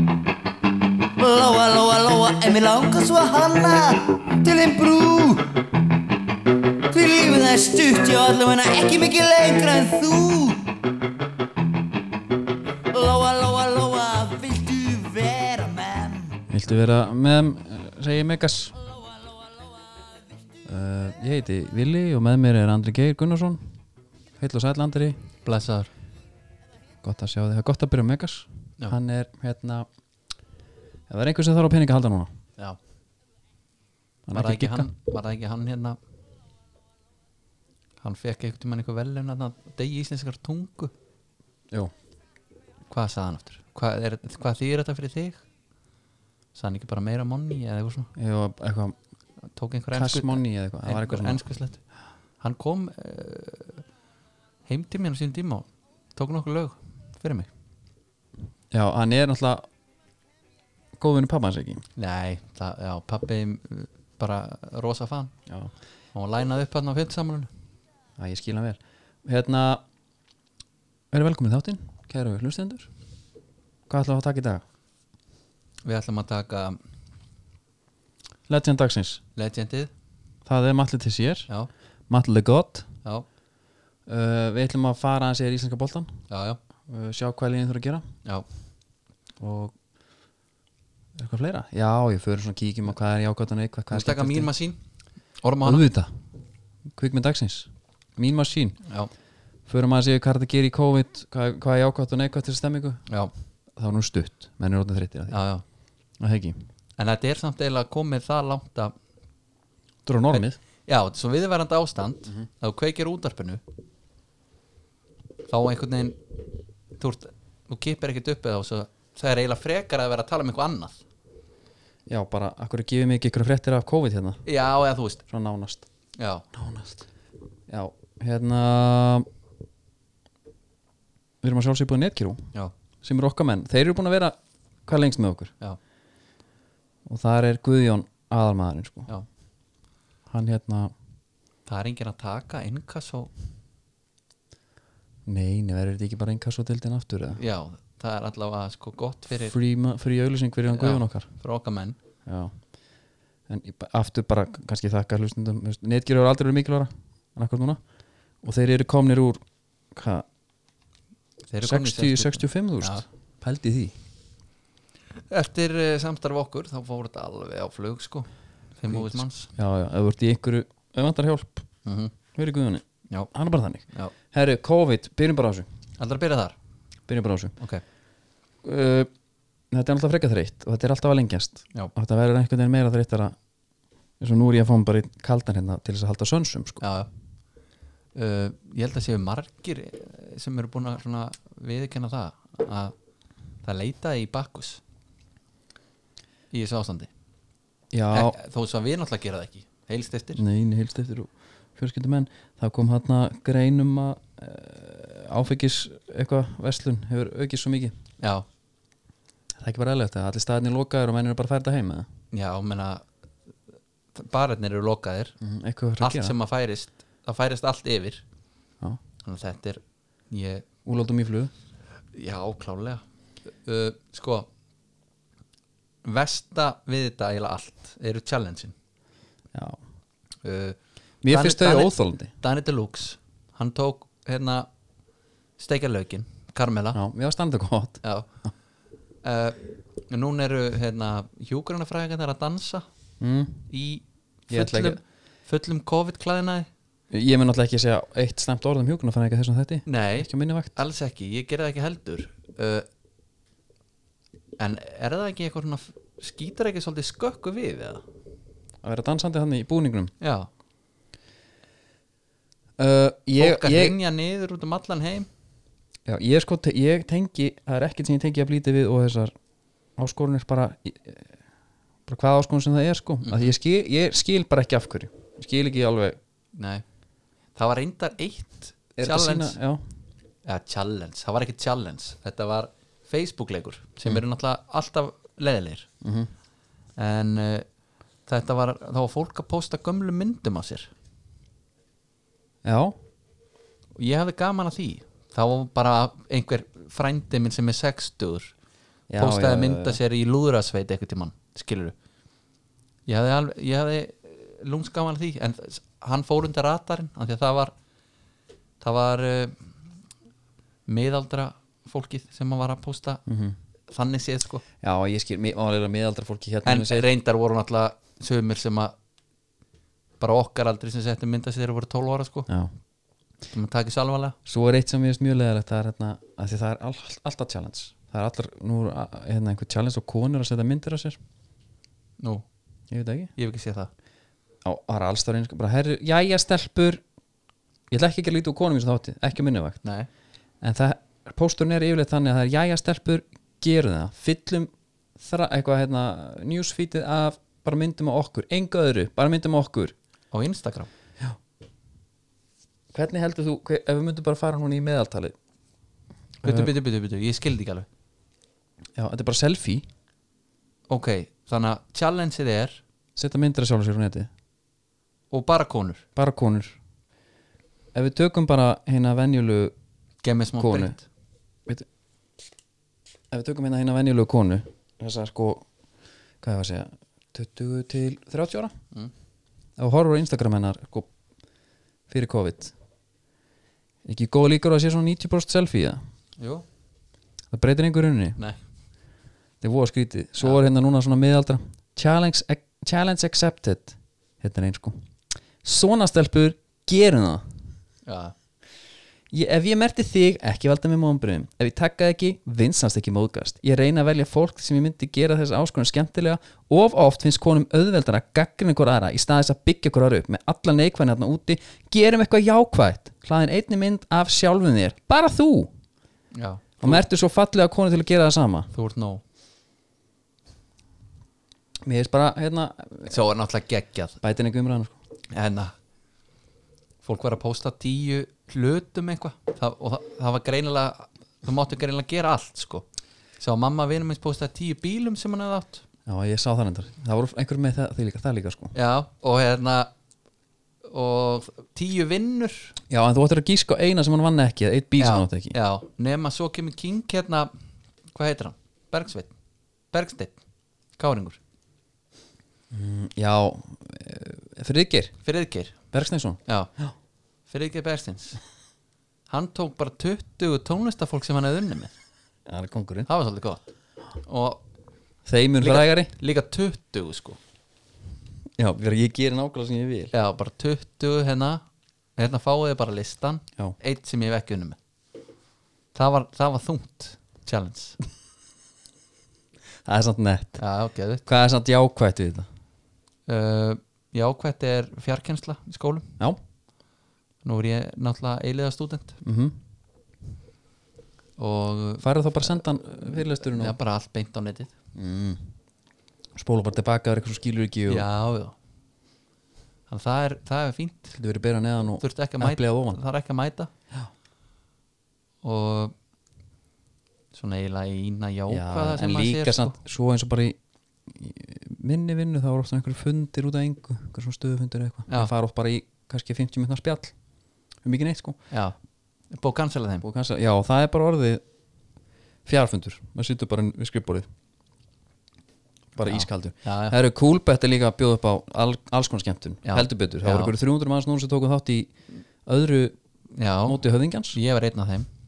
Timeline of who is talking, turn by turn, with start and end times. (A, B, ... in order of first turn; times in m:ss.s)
0:01.2-0:05.5 A
0:06.9-0:10.7 A
0:12.9-0:16.4 A
0:16.5-0:18.8 B
0:20.7-0:23.7 B
0:24.4-0:25.2 B
0:25.4-0:25.9 C
0:27.0-0:29.9 B
0:31.1-0:32.3 B
0:34.3-0:34.9 B
0:34.3-0:36.0 C
0:38.0-0:40.9 C
0:42.9-0:45.4 C
0:46.6-0:48.1 C
0:48.2-0:49.0 B
0:49.6-0:51.8 C
0:49.9-0:51.4 B
0:52.4-0:53.8 C
0:54.7-0:57.5 C
0:58.7-0:59.7 B
1:01.0-1:01.8 B
1:02.0-1:05.3 C
1:06.2-1:07.5 C
1:08.2-1:09.8 B
1:11.1-1:12.9 B
1:13.9-1:14.6 B
1:15.8-1:16.8 C
1:18.5-1:19.2 B
1:19.4-1:19.9 C
1:20.5-1:21.5 B
1:22.1-1:22.9 B
1:24.1-1:26.1 B
1:26.3-1:26.6 C
1:26.9-1:28.0 B
1:29.4-1:29.8 B
1:31.2-1:34.5 B
1:33.9-1:34.8 C
1:35.4-1:35.8 C
1:35.6-1:36.1 B
1:36.9-1:38.8 B
1:39.7-1:43.0 B
1:43.8-1:45.4 B
1:45.3-1:45.6 C
1:46.2-1:46.6 B
1:47.0-1:48.9 C
1:50.1-1:50.6 B
1:50.3-1:53.6 C
1:55.5-1:56.2 C
1:57.0-2:01.0 C
2:02.1-2:04.4 B
2:04.5-2:05.2 C
2:05.3-2:05.8 B
2:06.2-2:06.4 C
2:06.5-2:07.0 B
2:07.7-2:09.3 B
2:11.4-2:12.4 B
2:13.0-2:15.5 B
2:17.1-2:19.1 B
2:20.3-2:20.9 B
2:21.7-2:23.3 C
2:25.3-2:27.4 B
2:27.4-2:29.6 C
2:29.4-2:31.3 B
2:30.7-2:32.0 C
2:32.3-2:32.6 B
2:33.5-2:37.8 B
2:38.4-2:40.3 B
2:41.5-2:43.0 C
2:41.6-2:44.0 B
2:45.3-2:49.5 C
2:48.9-2:51.7 B
2:51.8-2:52.1 C
2:52.4-2:55.7 B
2:56.0-2:56.6 C
2:57.1-2:57.5 B
2:58.6-2:59.1 B
2:59.7-3:03.4 B
3:04.2-3:06.8 B
3:06.8-3:07.1 C
3:08.2-3:12.9 C
3:13.6-3:14.8 C
3:16.5-3:17.1 C
3:17.9-3:18.4 B
3:18.1-3:20.4 C
3:20.4-3:28.0 B
3:29.6-3:32.1 B
3:32.3-3:33.0 C
3:34.2-3:35.3 C
3:35.4-3:36.4 B
3:36.0-3:38.2 C
3:39.2-3:40.6 C
3:40.8-3:41.5 B
3:42.1-3:43.0 C
3:43.6-3:44.5 C
3:46.0-3:48.8 C
3:49.5-3:49.8 B
3:50.4-3:50.8 C
3:51.2-3:52.3 B
3:51.3-3:54.7 C
3:55.6-3:57.0 C
3:56.9-3:58.5 B
3:59.2-4:02.9 C
4:03.2-4:03.7 B
4:03.7-4:06.7 C
4:04.5-4:05.0 B
4:07.1-4:10.7 B
4:09.9-4:12.9 C
4:14.6-4:18.0 C
4:18.8-4:20.1 B
4:20.2-4:20.5 C
4:22.8-4:24.0 B
4:23.4-4:25.3 C
4:26.1-4:29.3 B
4:30.0-4:31.3 B
4:32.1-4:36.2 B
4:33.2-4:33.5 C
4:36.6-4:36.8 C
4:37.6-4:39.6 C
4:39.0-4:39.8 B
4:40.5-4:45.9 C
4:46.0-4:46.3 B
4:47.0-4:47.7 C
4:48.3-4:50.9 C
4:52.6-4:53.0 B
4:54.0-4:58.5 C
4:59.1-5:00.0 B
4:59.2-5:02.0 C
5:03.1-5:07.7 C
5:08.8-5:09.6 C
5:10.9-5:13.2 C
5:13.3-5:13.6 B
5:13.9-5:14.6 C
5:14.8-5:17.1 B
5:16.7-5:18.9 C
5:20.2-5:22.5 C
5:23.5-5:24.4 C
5:24.5-5:31.2 B
5:32.2-5:32.4 C
5:32.9-5:33.3 B
5:33.4-5:33.9 C
5:34.6-5:37.0 B
5:37.9-5:39.8 B
5:40.6-5:50.0 B
5:50.3-5:50.9 C
5:52.9-5:55.4 B
5:56.4-5:57.9 C
5:56.4-5:56.7 B
5:59.0-5:59.9 B
6:00.9-6:02.8 C
6:03.2-6:04.3 B
6:05.3-6:06.0 C
6:06.2-6:06.8 B
6:07.9-6:09.8 B
6:10.2-6:11.0 C
6:10.6-6:11.0 B
6:13.3-6:15.6 B
6:16.4-6:18.7 B
6:19.8-6:21.1 B
6:22.1-6:22.7 B
6:24.0-6:26.0 B
6:26.4-6:26.6 C
6:27.5-6:28.4 B
6:29.6-6:35.0 B
6:35.6-6:37.5 B
6:38.1-6:38.4 C
6:39.3-6:55.7 B
6:56.3-6:57.0 C
6:56.8-6:58.7 B
6:58.7-6:59.2 C
7:01.8-7:03.2 B
7:03.1-7:04.2 C
7:04.2-7:05.0 B
7:05.3-7:05.7 C
7:07.0-7:12.8 C
7:13.4-7:15.8 C
7:16.1-7:18.8 B
7:18.8-7:19.9 C
7:20.9-7:22.7 C
7:22.9-7:25.6 B
7:25.0-7:27.5 C
7:28.1-7:29.3 C
7:29.9-7:30.4 C
7:31.0-7:31.4 C
7:32.7-7:35.2 B
7:35.2-7:35.8 C
7:35.9-7:36.9 B
7:37.5-7:38.4 C
7:39.3-7:41.9 C
7:42.5-7:43.1 B
7:43.1-7:43.6 C
7:44.2-7:44.6 C
7:45.3-7:46.1 B
7:45.6-7:47.4 C
7:48.6-7:50.1 B
7:50.1-7:51.6 C
7:52.2-7:54.8 C
7:56.0-7:58.0 C
7:59.8-8:00.6 B
8:00.6-8:01.2 C
8:01.3-8:02.5 B
8:03.3-8:06.1 C
8:07.4-8:09.2 C
8:09.2-8:09.6 B
8:11.4-8:14.7 C
8:12.0-8:13.8 B
8:15.0-8:15.5 B
8:16.4-8:18.1 B
8:17.9-8:18.6 C
8:19.9-8:21.2 C
8:21.1-8:23.0 B
8:22.0-8:23.7 C
8:25.4-8:25.9 C
8:27.3-8:29.8 C
8:28.5-8:37.1 B
8:37.8-8:38.4 B
8:38.5-8:38.8 C
8:39.3-8:40.0 C
8:40.0-8:41.4 B
8:42.5-8:44.3 B
8:46.0-8:53.0 B
8:46.1-8:47.0 C
8:49.7-8:50.5 C
8:53.4-8:53.8 C
8:53.6-8:54.4 B
8:54.3-8:55.1 C